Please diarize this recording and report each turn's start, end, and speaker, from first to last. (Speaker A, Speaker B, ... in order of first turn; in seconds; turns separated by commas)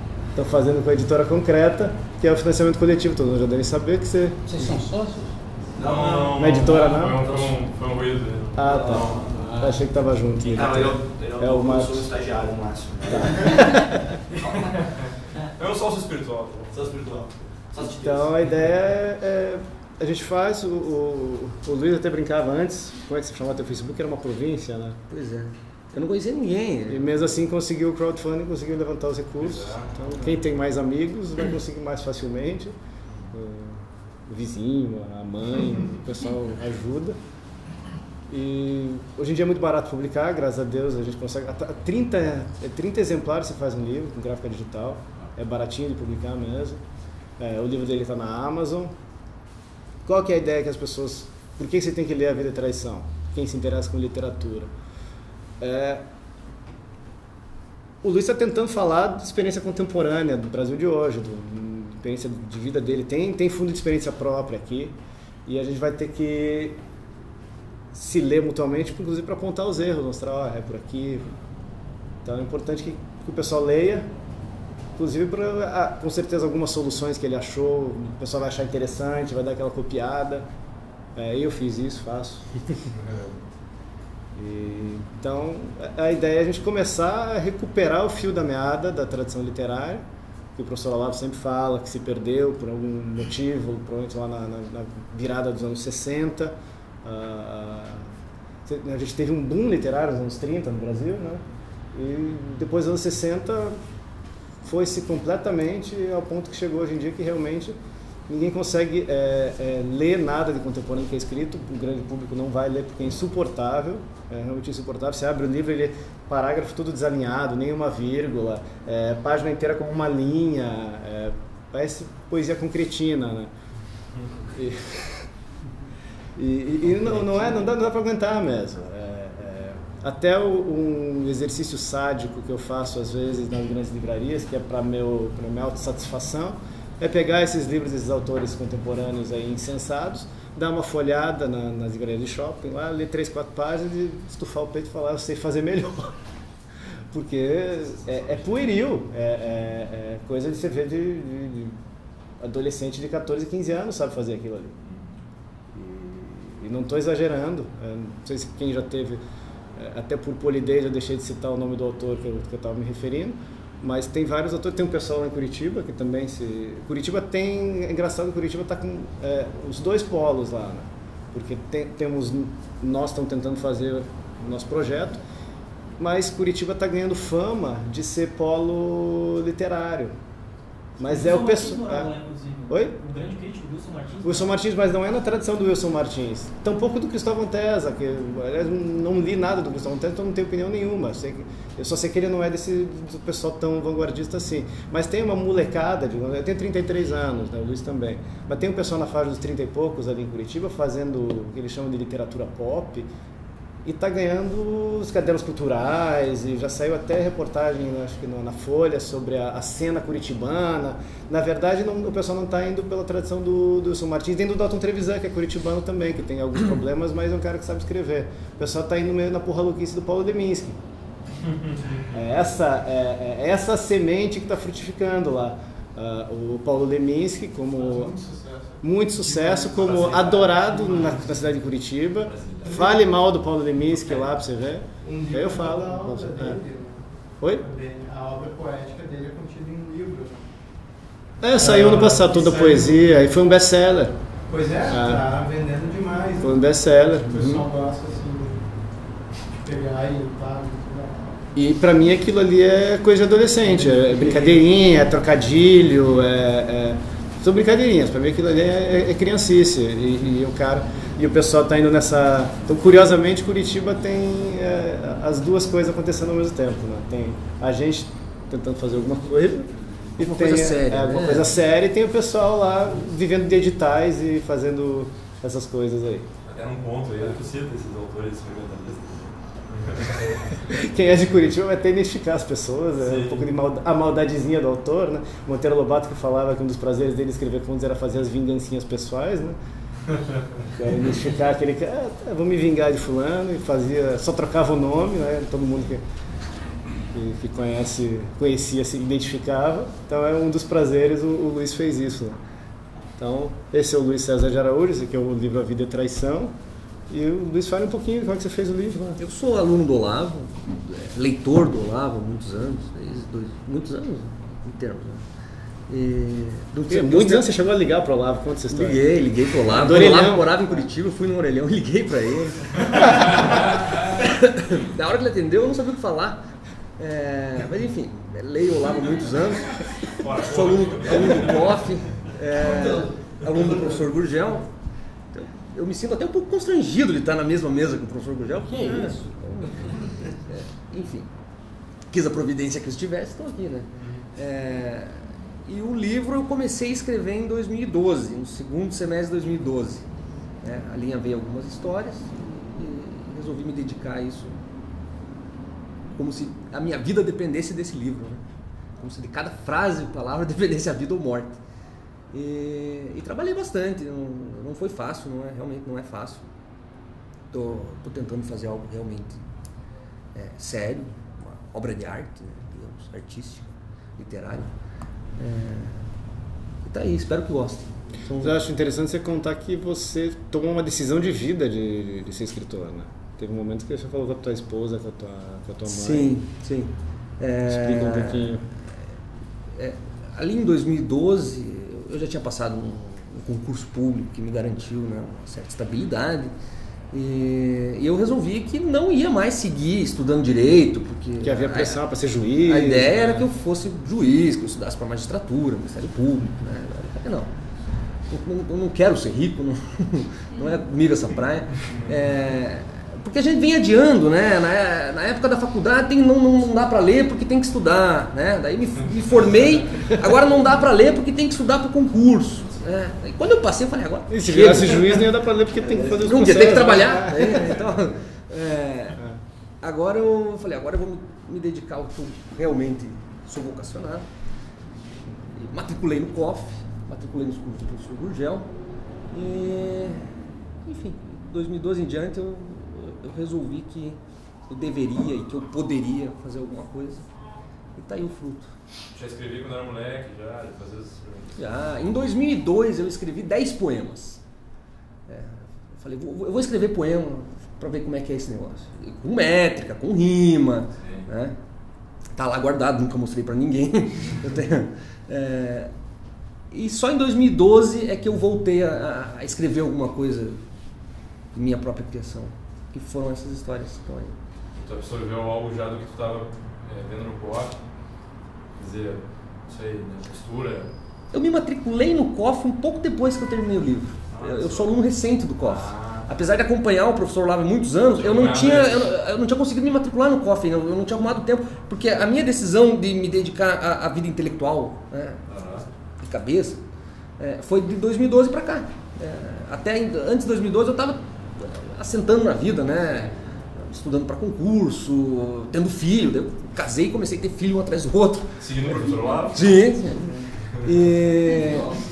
Speaker A: 0.3-4.8, Speaker B: 4.5-6.3, Speaker C: 5.8-9.4, Speaker A: 6.3-7.5, Speaker A: 8.6-12.1, Speaker B: 9.1-9.8, Speaker C: 10.5-13.7, Speaker A: 13.0-14.2, Speaker C: 14.3-18.2, Speaker A: 17.8-25.0, Speaker D: 25.1-27.1, Speaker A: 26.9-32.8, Speaker C: 29.4-30.4, Speaker A: 33.3-37.2, Speaker A: 38.3-46.8, Speaker A: 47.4-49.0, Speaker A: 50.0-54.7, Speaker A: 55.6-56.1, Speaker A: 58.0-66.8, Speaker A: 67.9-71.3, Speaker A: 72.2-74.1, Speaker A: 75.0-80.5, Speaker A: 81.2-82.9, Speaker C: 83.0-83.3, Speaker A: 84.3-98.1, Speaker A: 98.7-101.4, Speaker A: 101.9-103.8, Speaker A: 104.6-123.5, Speaker A: 124.5-125.3, Speaker A: 126.4-146.2, Speaker A: 147.1-151.8, Speaker A: 152.4-154.8, Speaker A: 155.7-159.2, Speaker A: 159.8-175.2, Speaker A: 176.0-180.2, Speaker A: 181.0-182.1, Speaker E: 181.0-184.6, Speaker A: 182.7-183.1, Speaker A: 184.2-203.1, Speaker A: 203.8-220.8, Speaker C: 221.5-221.8, Speaker A: 222.1-228.2, Speaker F: 227.8-228.8, Speaker A: 228.8-236.6, Speaker F: 229.3-231.2, Speaker C: 229.8-230.2, Speaker C: 232.2-232.8, Speaker F: 235.0-240.5, Speaker A: 241.4-244.2, Speaker F: 241.5-243.1, Speaker F: 244.5-248.7, Speaker A: 244.9-245.3, Speaker A: 246.4-247.7, Speaker F: 249.5-251.4, Speaker A: 251.6-276.3, Speaker F: 253.7-254.7, Speaker D: 270.2-271.5, Speaker C: 276.5-280.6, Speaker A: 280.6-289.6, Speaker C: 283.0-283.5, Speaker A: 290.7-296.0, Speaker A: 297.1-302.4, Speaker A: 303.2-306.6, Speaker A: 307.1-309.2, Speaker D: 309.2-315.2, Speaker D: 315.9-317.5, Speaker A: 316.9-320.8, Speaker D: 318.7-326.4, Speaker C: 323.5-323.9, Speaker D: 327.0-334.7, Speaker C: 330.1-331.9, Speaker E: 332.6-333.0, Speaker D: 335.3-341.3, Speaker B: 338.6-339.3, Speaker D: 342.1-350.1, Speaker C: 344.0-344.2, Speaker D: 350.6-354.6, Speaker D: 356.1-358.4, Speaker D: 359.0-361.6, Speaker D: 362.3-366.4, Speaker D: 367.5-369.4, Speaker D: 370.3-374.7, Speaker D: 375.4-376.1, Speaker D: 376.8-378.5, Speaker A: 378.4-386.4, Speaker D: 385.9-388.6, Speaker A: 387.7-388.7, Speaker D: 389.8-396.5, Speaker D: 397.1-402.0, Speaker A: 401.4-403.5, Speaker D: 402.6-407.5, Speaker D: 408.3-425.3, Speaker C: 411.9-412.1, Speaker A: 424.3-427.8, Speaker D: 426.0-429.2, Speaker D: 429.8-434.3, Speaker D: 435.6-438.7, Speaker D: 439.3-447.3, Speaker D: 447.9-448.7, Speaker C: 449.1-451.7, Speaker D: 451.6-454.4, Speaker D: 455.3-461.6, Speaker C: 461.0-461.3, Speaker D: 462.4-465.9, Speaker D: 466.7-470.6, Speaker D: 471.5-474.4, Speaker C: 474.8-477.8, Speaker C: 478.8-480.9, Speaker D: 481.3-495.4, Speaker C: 484.3-484.9, Speaker C: 485.6-486.3, Speaker C: 488.1-489.1, Speaker C: 495.5-495.9, Speaker D: 496.2-496.8, Speaker D: 497.4-508.5, Speaker C: 508.6-509.9, Speaker D: 509.5-510.2, Speaker D: 510.8-511.9